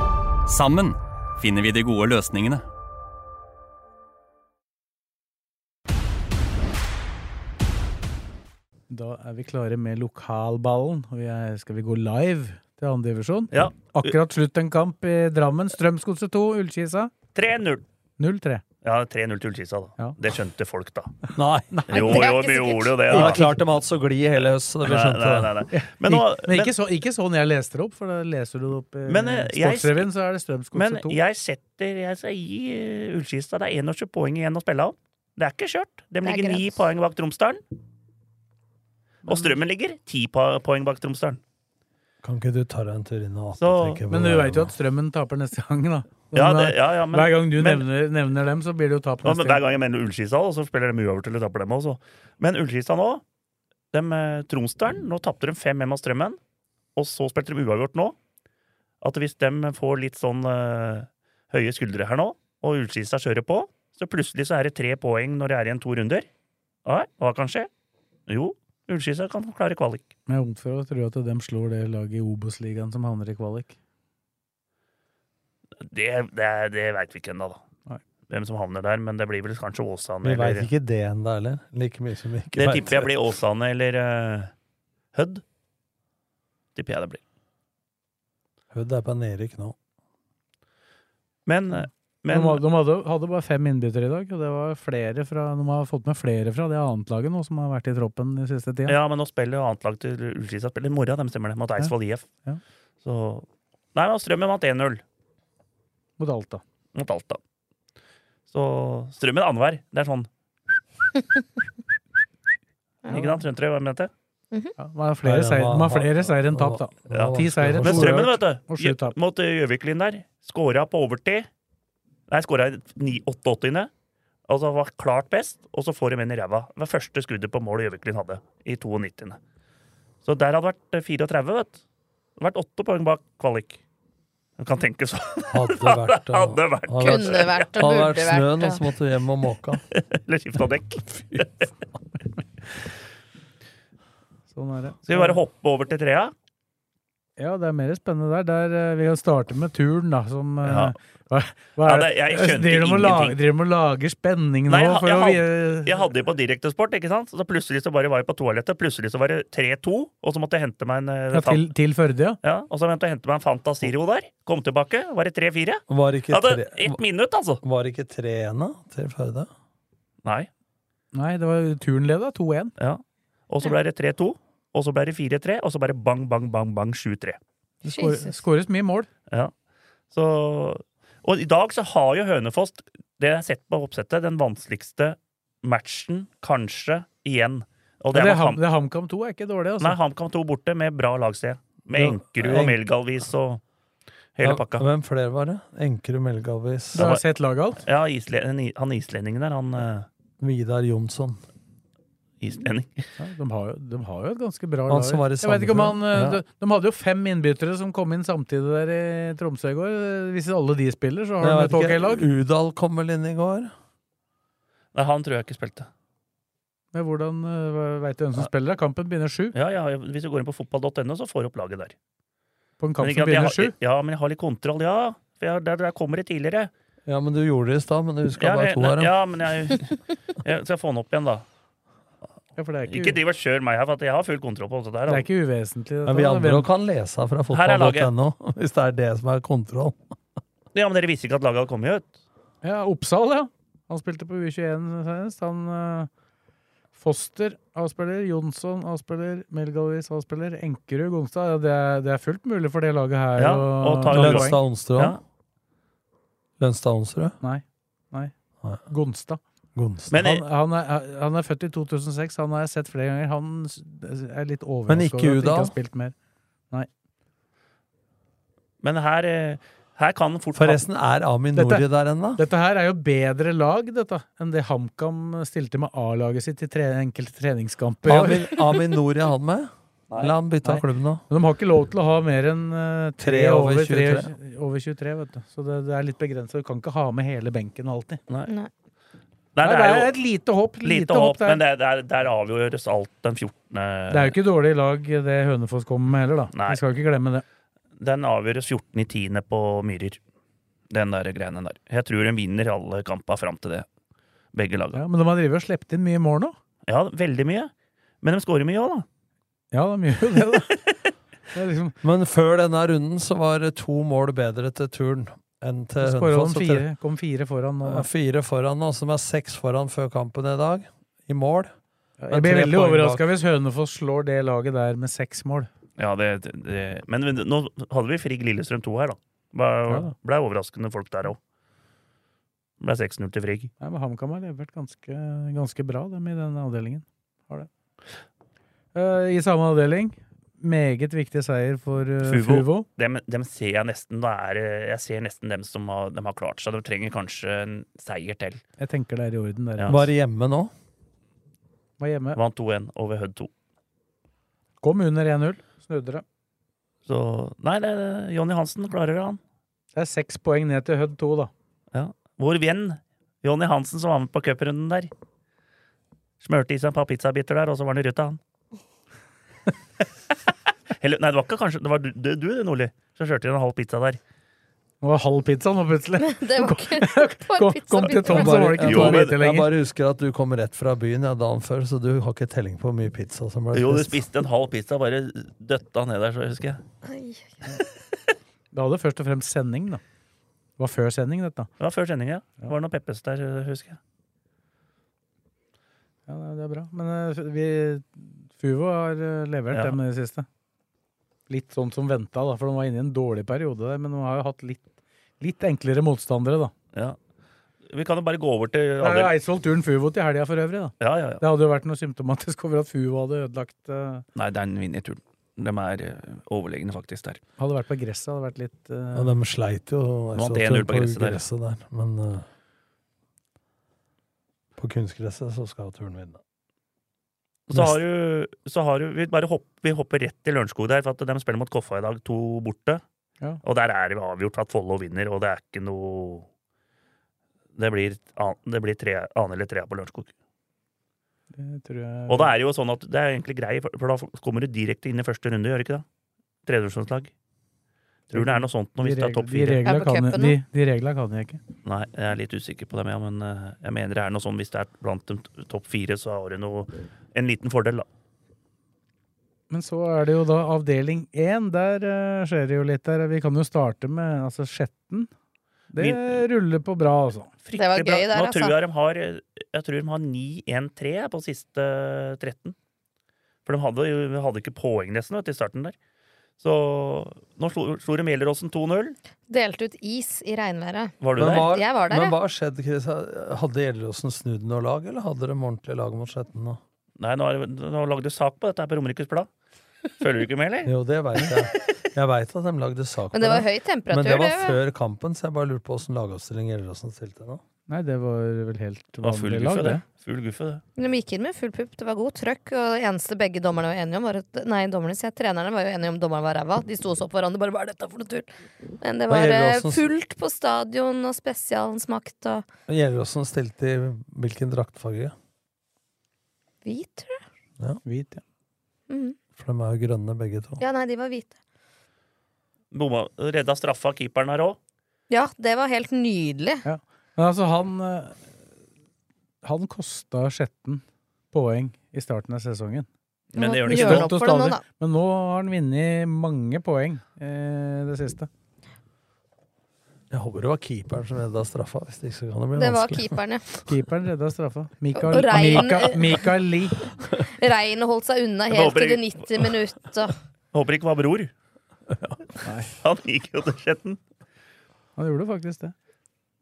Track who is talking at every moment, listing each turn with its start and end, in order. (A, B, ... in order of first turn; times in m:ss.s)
0:00.4-0:02.6 A
0:08.9-0:17.1 B
0:13.5-0:14.2 C
0:17.4-0:17.8 C
0:18.2-0:18.6 B
0:18.8-0:21.2 C
0:21.3-0:22.0 D
0:21.7-0:22.2 B
0:21.9-0:23.4 C
0:21.9-0:23.0 E
0:23.1-0:25.6 D
0:23.1-0:23.5 B
0:24.8-0:26.7 C
0:25.7-0:31.2 B
0:29.1-0:30.1 C
0:30.7-0:37.6 C
0:36.2-0:36.7 E
0:39.3-0:39.6 B
0:39.3-0:41.4 C
0:42.2-0:44.7 D
0:43.6-0:44.0 C
0:44.1-0:49.6 B
0:46.3-0:47.8 C
0:49.2-0:53.2 C
0:53.9-0:56.4 C
0:57.0-0:58.2 C
0:59.0-1:06.3 C
1:06.8-1:07.7 C
1:08.3-1:10.1 C
1:10.3-1:13.8 B
1:15.8-1:17.6 C
1:18.3-1:20.7 C
1:20.2-1:23.1 D
1:22.6-1:24.5 C
1:25.1-1:25.4 C
1:26.7-1:27.2 C
1:28.7-1:29.8 D
1:31.4-1:32.6 C
1:32.3-1:39.0 B
1:38.9-1:42.3 C
1:43.0-1:45.0 C
1:46.2-1:46.6 B
1:47.0-1:47.4 C
1:48.5-1:50.3 C
1:53.1-1:54.1 C
1:53.1-1:53.4 B
1:54.8-1:59.2 B
1:55.2-1:58.3 D
1:57.1-2:01.5 C
2:02.3-2:03.9 C
2:04.5-2:09.4 C
2:10.2-2:11.8 C
2:12.4-2:13.8 C
2:14.6-2:17.7 C
2:15.5-2:19.8 D
2:17.0-2:18.8 E
2:19.9-2:21.7 C
2:24.5-2:25.4 B
2:25.1-2:26.3 C
2:27.4-2:36.0 B
2:30.6-2:30.9 C
2:31.8-2:33.4 C
2:34.7-2:41.7 C
2:41.3-2:42.4 B
2:42.4-2:47.6 C
2:45.9-2:47.0 D
2:47.6-2:49.5 D
2:51.1-2:52.7 B
2:52.8-2:57.4 C
2:57.8-2:59.1 B
2:57.9-2:58.3 E
3:00.1-3:08.6 C
3:08.1-3:10.0 B
3:09.8-3:13.6 C
3:12.0-3:12.8 D
3:14.4-3:14.9 C
3:14.4-3:17.1 D
3:17.0-3:17.8 B
3:17.0-3:17.2 C
3:17.8-3:20.1 C
3:20.4-3:21.4 D
3:22.4-3:23.1 C
3:23.2-3:32.3 B
3:24.9-3:26.4 D
3:31.4-3:33.7 D
3:35.0-3:35.9 C
3:36.9-3:39.5 B
3:39.5-3:42.0 C
3:42.8-3:43.7 B
3:43.0-3:46.7 C
3:47.1-3:49.1 D
3:48.4-3:51.4 C
3:52.6-3:53.2 B
3:52.9-3:55.3 C
3:55.1-3:56.7 B
3:56.1-4:00.0 D
3:57.5-3:58.1 C
4:00.7-4:02.2 C
4:02.6-4:06.1 B
4:07.0-4:14.6 B
4:13.4-4:15.2 C
4:14.1-4:15.2 D
4:16.6-4:17.4 D
4:17.4-4:18.3 B
4:18.9-4:19.4 B
4:19.8-4:20.2 D
4:20.1-4:20.4 C
4:20.2-4:26.1 B
4:24.9-4:25.7 D
4:28.8-4:30.8 C
4:30.6-4:32.4 D
4:31.6-4:31.8 B
4:32.4-4:38.5 B
4:38.1-4:41.2 D
4:40.6-4:48.2 B
4:43.2-4:44.3 D
4:49.6-4:50.1 C
4:49.6-4:51.6 B
4:50.8-4:54.4 C
4:54.1-4:57.4 B
4:56.5-4:56.8 C
4:58.0-5:00.2 C
5:00.9-5:03.9 C
5:04.5-5:05.0 C
5:04.9-5:06.6 B
5:06.9-5:07.7 C
5:08.2-5:09.1 C
5:09.7-5:10.8 B
5:11.5-5:12.0 B
5:12.0-5:16.9 D
5:16.0-5:18.1 B
5:17.8-5:21.7 D
5:22.2-5:25.7 B
5:22.3-5:23.2 D
5:26.0-5:31.4 C
5:29.9-5:30.1 B
5:32.8-5:33.7 C
5:33.8-5:37.7 B
5:38.9-5:42.9 B
5:42.2-5:48.6 C
5:48.8-5:50.0 B
5:49.9-5:50.7 D
5:52.0-5:52.4 B
5:52.4-5:53.5 C
5:54.8-5:56.2 B
5:57.1-5:59.4 C
6:00.0-6:01.5 B
6:01.9-6:05.1 C
6:06.4-6:08.4 C
6:11.0-6:14.2 C
6:15.0-6:19.7 B
6:16.2-6:18.7 E
6:18.3-6:24.2 D
6:18.8-6:19.3 C
6:23.7-6:26.8 C
6:27.0-6:27.5 E
6:28.7-6:30.0 B
6:30.8-6:31.7 B
6:31.8-6:34.0 C
6:36.3-6:40.5 B
6:39.7-6:40.0 C
6:41.5-6:44.9 B
6:45.4-6:46.7 B
6:47.9-6:49.3 C
6:49.0-6:54.2 B
6:51.0-6:51.4 C
6:54.4-6:57.4 C
6:57.6-6:59.3 B
6:59.2-7:02.4 D
7:00.4-7:01.4 C
7:04.8-7:06.4 D
7:07.7-7:13.0 C
7:07.7-7:08.0 D
7:13.6-7:16.5 C
7:17.8-7:20.3 C
7:21.5-7:22.5 B
7:22.3-7:26.0 C
7:26.7-7:27.3 C
7:28.3-7:29.8 C
7:28.3-7:31.6 B
7:29.8-7:30.6 E
7:31.8-7:38.1 C
7:39.7-7:45.3 B
7:45.9-7:47.5 B
7:46.0-7:46.4 C
7:47.6-7:52.7 C
7:47.7-7:48.8 E
7:53.7-7:56.0 C
7:56.6-7:59.2 C
7:59.5-8:02.4 E
8:01.2-8:01.7 C
8:01.4-8:06.8 D
8:07.2-8:09.5 C
8:10.2-8:10.9 C
8:10.8-8:17.6 D
8:13.3-8:14.8 E
8:17.9-8:20.0 B
8:19.2-8:20.8 C
8:21.0-8:28.5 E
8:29.0-8:32.6 E
8:29.3-8:30.1 D
8:32.9-8:35.3 D
8:36.8-8:37.4 E
8:38.0-8:38.4 B
8:39.1-8:39.4 E
8:39.6-8:40.8 D
8:40.8-8:41.6 E
8:42.9-8:44.8 C
8:45.3-8:46.8 E
8:46.8-8:48.4 B
8:49.6-8:53.1 B
8:53.5-8:54.3 C
8:53.6-8:54.8 E
8:53.9-8:58.5 B
9:00.3-9:03.4 D
9:02.8-9:03.6 E
9:03.9-9:07.0 B
9:05.1-9:06.5 E
9:07.3-9:10.4 E
9:08.7-9:09.3 C
9:10.7-9:11.5 C
9:12.6-9:12.9 B
9:13.0-9:14.2 C
9:15.2-9:15.9 B